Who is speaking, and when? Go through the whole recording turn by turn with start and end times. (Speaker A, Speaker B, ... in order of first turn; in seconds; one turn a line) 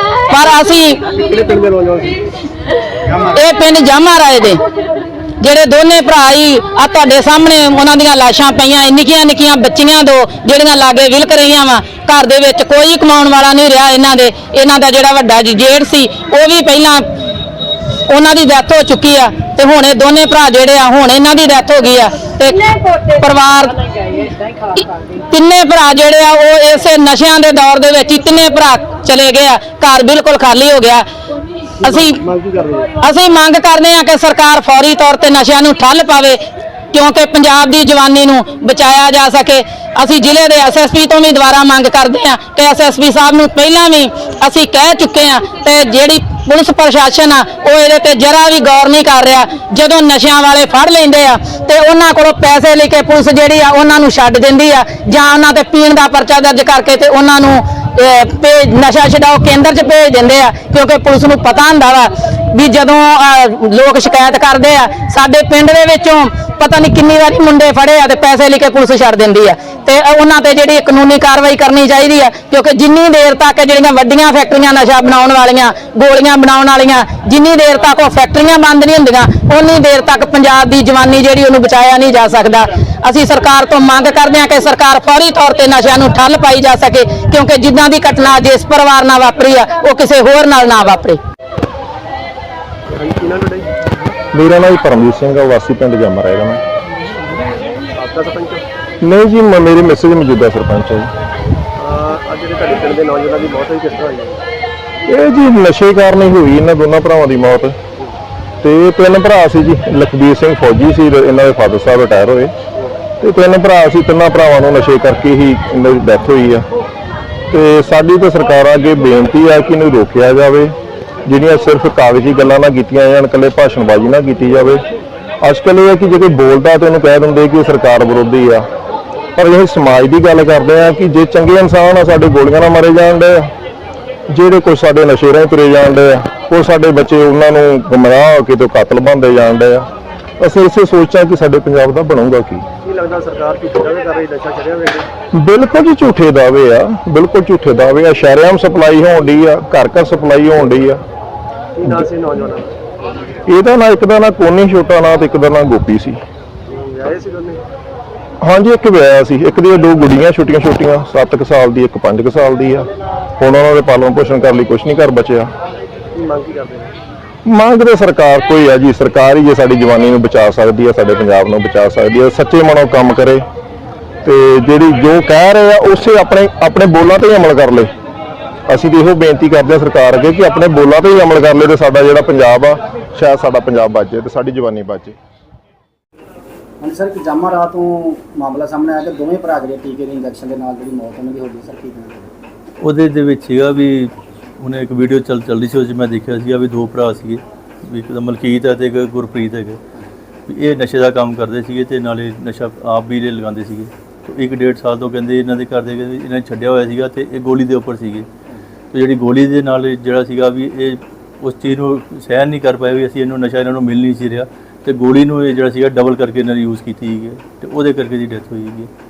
Speaker A: 0.3-1.0
Speaker B: 1.1-2.1
Speaker A: 3.3-4.6
Speaker A: 5.4-17.0
Speaker A: 18.1-23.8
Speaker A: 25.3-31.0
Speaker B: 31.8-32.9
Speaker A: 31.8-32.2
Speaker A: 33.0-36.4
Speaker A: 36.9-91.2
Speaker B: 93.0-93.9
Speaker C: 94.3-96.6
Speaker B: 98.0-98.6
Speaker C: 99.0-101.1
Speaker B: 101.8-104.4
Speaker C: 105.1-107.8
Speaker C: 108.6-112.5
Speaker C: 113.2-116.7
Speaker C: 117.5-120.7
Speaker C: 121.2-124.8
Speaker C: 125.4-128.7
Speaker C: 129.4-133.4
Speaker C: 134.3-139.9
Speaker C: 140.4-142.6
Speaker B: 142.8-145.1
Speaker C: 145.3-151.0
Speaker B: 151.8-152.7
Speaker C: 153.5-156.2
Speaker B: 156.7-157.6
Speaker C: 158.4-165.5
Speaker B: 166.1-166.9
Speaker C: 167.5-173.4
Speaker C: 174.2-177.9
Speaker C: 178.7-185.1
Speaker D: 186.8-192.3
Speaker E: 192.8-199.8
Speaker E: 200.5-208.3
Speaker E: 208.9-218.9